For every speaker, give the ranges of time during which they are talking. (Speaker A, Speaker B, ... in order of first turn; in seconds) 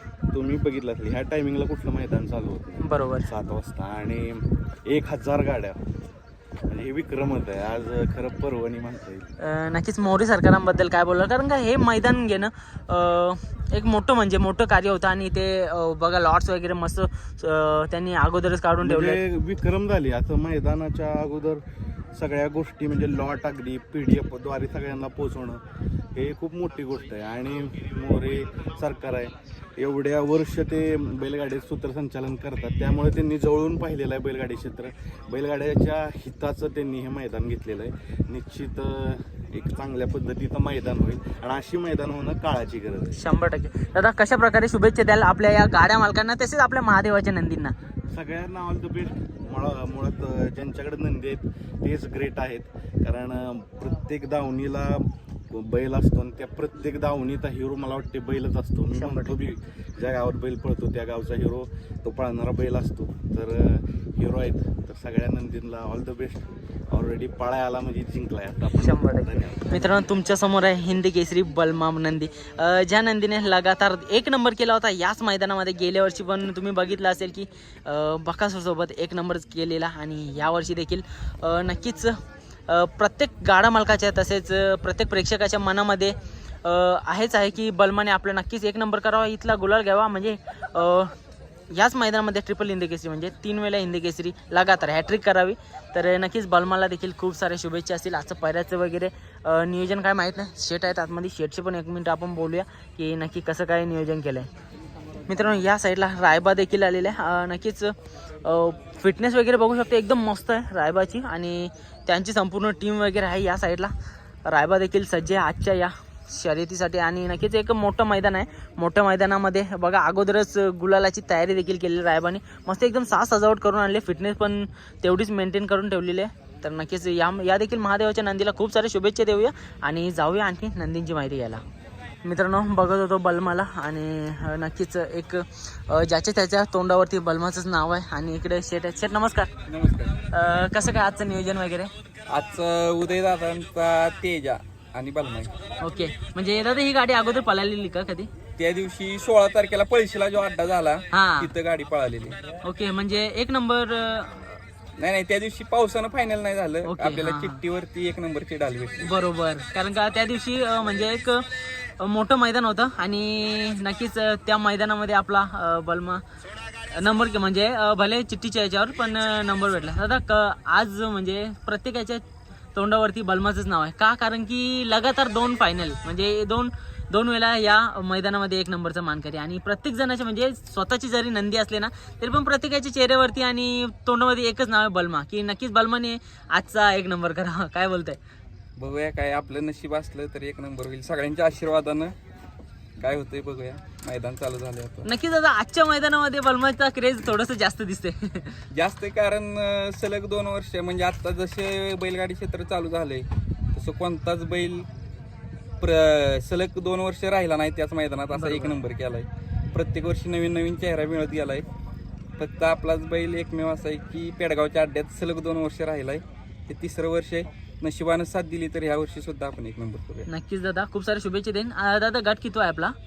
Speaker A: 0.3-5.8, 6.7-9.3, 18.8-21.6, 22.1-25.6, 26.1-43.2, 48.1-70.0
Speaker B: 2.8-3.3, 9.4-19.2, 43.2-47.7, 58.9-59.4, 68.8-91.1, 91.7-104.5, 105.3-113.9, 114.5-131.6, 132.2-139.5, 140.3-141.9, 145.8-148.3, 151.1-151.5, 152.6-154.6, 156.9-157.6, 159.0-161.5, 162.0-166.2, 166.9-172.2, 172.8-188.2, 195.1-198.6, 208.3-208.8, 220.3-222.9
Speaker C: 139.7-140.2, 142.3-145.5, 148.6-152.4, 155.0-159.1, 188.8-192.2, 193.0-195.1, 198.7-204.9, 205.8-211.7, 212.4-220.3